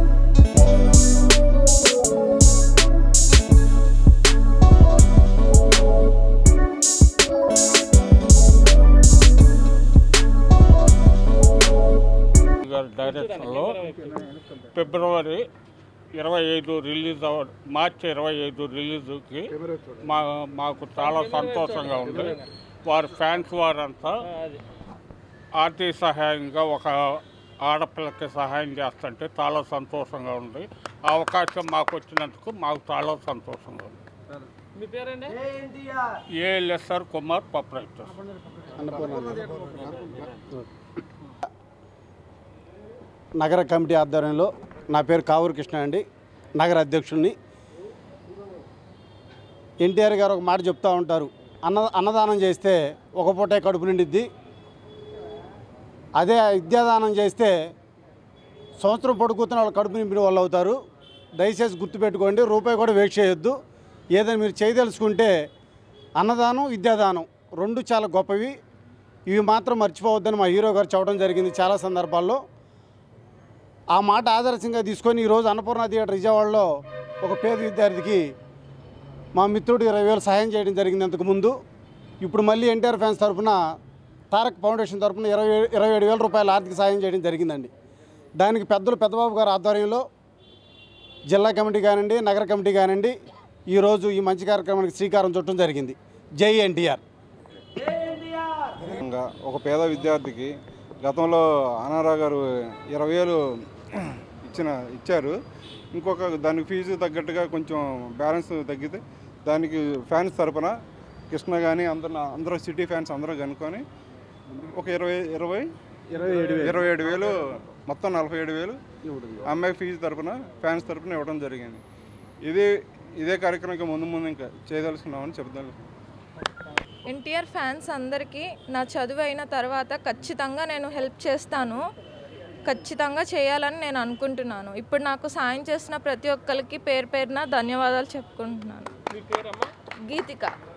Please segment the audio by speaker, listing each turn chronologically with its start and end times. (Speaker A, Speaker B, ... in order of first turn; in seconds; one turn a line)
Speaker A: 12.6-13.9
Speaker B: 13.3-14.1
Speaker A: 14.5-15.5
Speaker A: 16.1-24.2
Speaker B: 21.1-21.7
Speaker B: 24.3-24.6
Speaker A: 25.5-34.0
Speaker B: 34.8-35.4
Speaker A: 36.3-38.2
Speaker C: 38.7-39.6
Speaker C: 43.4-46.0
Speaker C: 46.6-47.3
Speaker C: 49.8-54.3
Speaker C: 56.2-57.5
Speaker C: 58.8-60.8
Speaker C: 61.4-63.6
Speaker C: 64.1-65.3
Speaker C: 66.2-68.5
Speaker C: 69.3-72.4
Speaker C: 73.9-76.7
Speaker C: 77.2-78.2
Speaker C: 79.3-81.5
Speaker C: 82.2-83.6
Speaker C: 84.3-87.7
Speaker C: 88.4-90.0
Speaker C: 91.3-93.1
Speaker C: 93.7-97.0
Speaker D: 98.8-105.4
Speaker D: 105.9-110.8
Speaker D: 111.3-113.8
Speaker D: 114.7-115.7
Speaker C: 116.1-116.8
Speaker D: 116.5-118.8
Speaker D: 119.4-121.8
Speaker D: 122.4-125.8
Speaker E: 127.0-131.8
Speaker E: 132.6-139.0
Speaker B: 139.1-139.7
Speaker E: 140.0-140.5